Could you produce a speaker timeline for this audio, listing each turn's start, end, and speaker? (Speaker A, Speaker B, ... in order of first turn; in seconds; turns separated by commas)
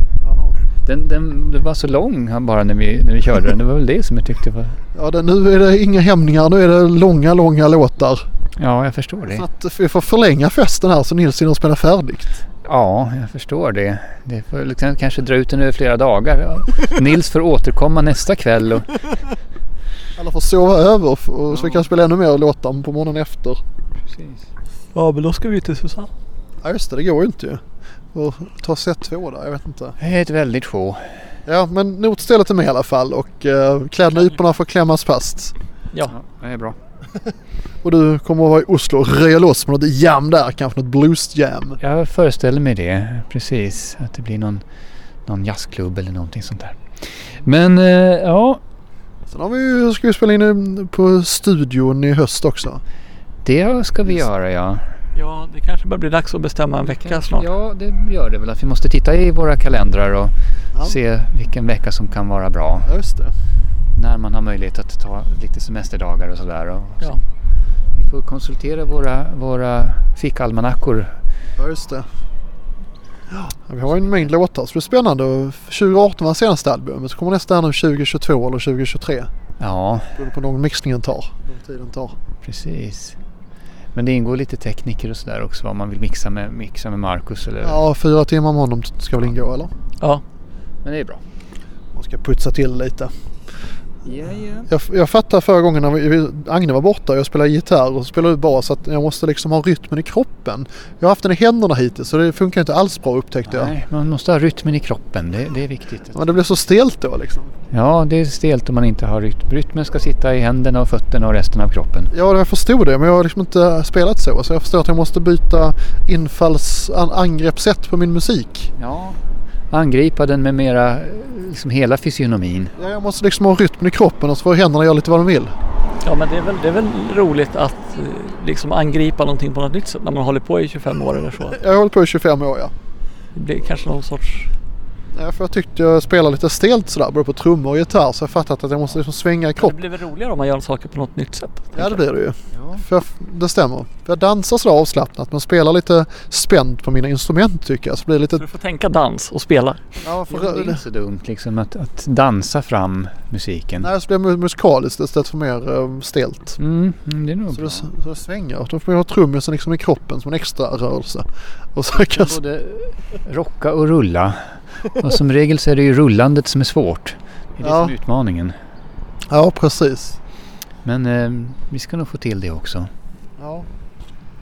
Speaker A: 0.2-0.6, Speaker B: 0.8-4.8, Speaker A: 5.0-8.2, Speaker B: 8.6-9.5, Speaker A: 9.3-12.4, Speaker B: 12.7-18.9, Speaker A: 20.2-23.6, Speaker B: 21.5-21.8, Speaker B: 24.1-24.4, Speaker C: 24.9-26.1, Speaker A: 26.6-27.6, Speaker A: 28.1-30.0, Speaker B: 30.0-31.0, Speaker A: 31.5-35.5, Speaker B: 36.1-36.8, Speaker A: 37.8-41.8, Speaker B: 41.8-44.6, Speaker B: 45.3-46.8, Speaker B: 47.4-48.6, Speaker A: 49.3-52.8, Speaker B: 53.5-54.8, Speaker C: 55.2-57.5, Speaker B: 56.9-62.9, Speaker A: 62.9-63.3, Speaker B: 64.0-67.2, Speaker B: 68.0-71.2, Speaker A: 71.6-72.1, Speaker A: 73.3-79.3, Speaker B: 79.6-80.1, Speaker A: 80.2-82.1, Speaker B: 82.4-83.2, Speaker B: 84.0-87.8, Speaker A: 87.6-89.7, Speaker B: 90.8-91.2, Speaker A: 91.9-93.1, Speaker B: 94.1-94.7, Speaker A: 94.7-103.7, Speaker B: 103.5-106.4, Speaker A: 106.1-107.5, Speaker B: 107.7-112.1, Speaker A: 112.1-118.7, Speaker B: 118.8-119.2, Speaker B: 119.7-122.7, Speaker A: 122.8-125.5, Speaker C: 126.0-131.6, Speaker A: 131.4-132.7, Speaker C: 133.3-134.5, Speaker A: 135.1-139.8, Speaker C: 139.6-142.0, Speaker A: 141.7-148.4, Speaker C: 148.4-149.8, Speaker A: 150.0-150.8, Speaker B: 150.3-153.9, Speaker A: 153.8-156.6, Speaker B: 156.6-157.9, Speaker A: 157.5-162.4, Speaker B: 161.9-168.6, Speaker A: 167.6-167.9, Speaker A: 169.3-170.2, Speaker B: 170.8-172.9, Speaker A: 173.4-173.7